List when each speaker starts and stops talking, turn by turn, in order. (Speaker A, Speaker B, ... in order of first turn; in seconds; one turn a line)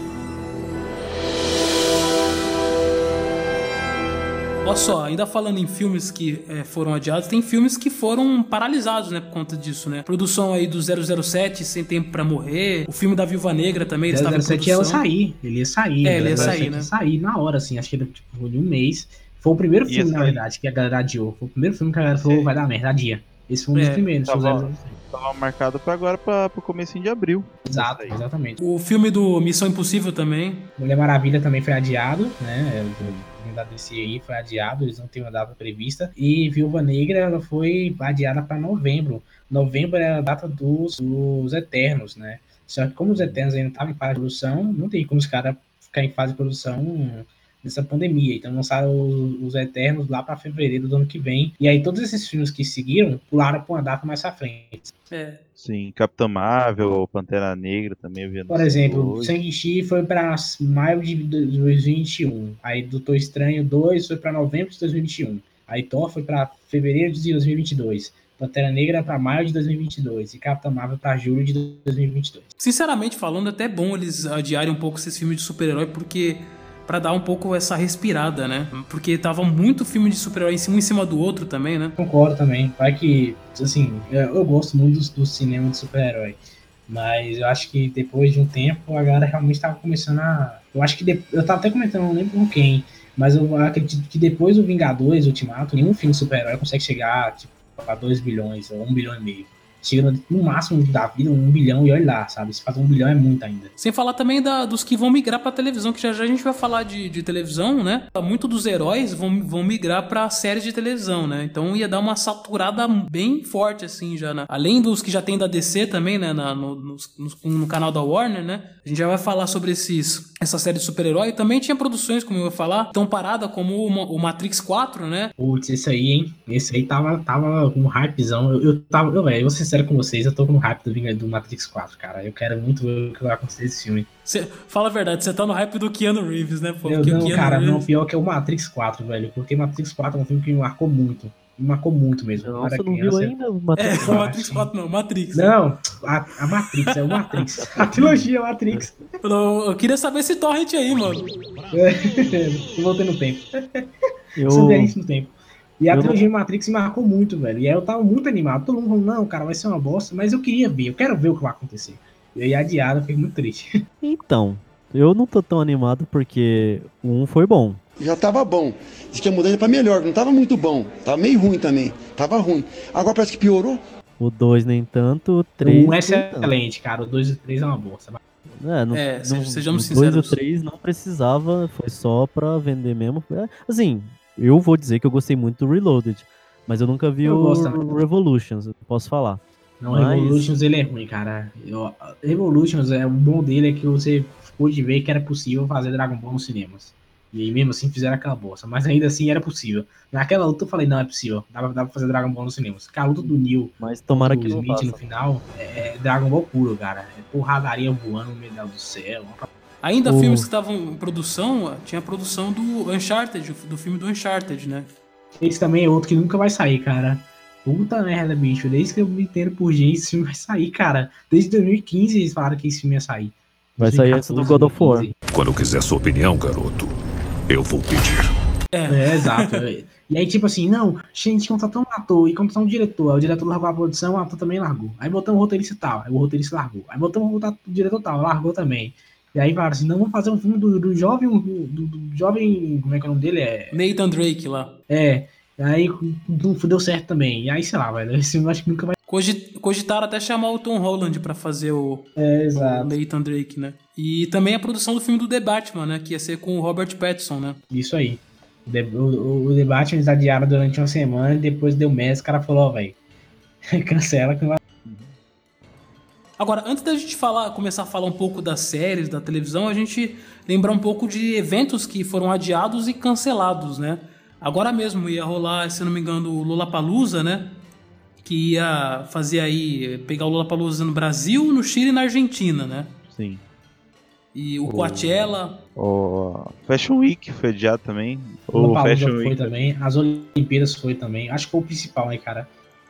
Speaker A: 4.6-15.0
Speaker B: 14.1-25.0
Speaker A: 16.0-16.9
Speaker C: 16.2-16.6
Speaker C: 19.9-20.4
Speaker A: 23.7-24.1
Speaker C: 24.2-28.2
Speaker B: 27.7-28.6
Speaker A: 28.6-30.7
Speaker B: 30.8-54.9
Speaker A: 55.1-55.4
Speaker C: 55.6-59.4
Speaker B: 58.5-72.5
Speaker A: 72.6-82.0
Speaker B: 82.0-103.7
Speaker A: 103.8-125.3
Speaker B: 125.4-134.1
Speaker A: 134.2-137.8
Speaker B: 136.8-143.3
Speaker D: 142.3-144.3
Speaker A: 143.8-145.5
Speaker B: 144.0-144.7
Speaker B: 145.3-148.9
Speaker D: 147.8-148.9
Speaker A: 149.2-151.2
Speaker B: 151.7-153.8
Speaker D: 154.3-154.9
Speaker B: 154.4-163.8
Speaker D: 155.9-156.2
Speaker D: 164.0-167.8
Speaker E: 168.0-173.8
Speaker D: 174.2-176.5
Speaker B: 175.6-178.2
Speaker D: 178.5-190.5
Speaker A: 178.9-180.4
Speaker B: 187.2-187.9
Speaker B: 189.8-209.5
Speaker D: 203.2-205.0
Speaker A: 209.8-214.9
Speaker D: 210.0-210.5
Speaker B: 215.4-225.1
Speaker D: 223.8-225.1
Speaker F: 225.3-226.9
Speaker F: 227.5-228.3
Speaker A: 228.7-229.5
Speaker B: 228.9-243.8
Speaker A: 243.7-244.8
Speaker B: 244.9-248.9
Speaker A: 249.1-257.6
Speaker B: 252.2-252.9
Speaker B: 257.7-263.0
Speaker B: 263.7-264.6
Speaker A: 266.4-277.6
Speaker A: 278.2-282.9
Speaker C: 283.1-283.4
Speaker A: 284.3-285.6
Speaker C: 284.6-289.7
Speaker B: 288.5-292.5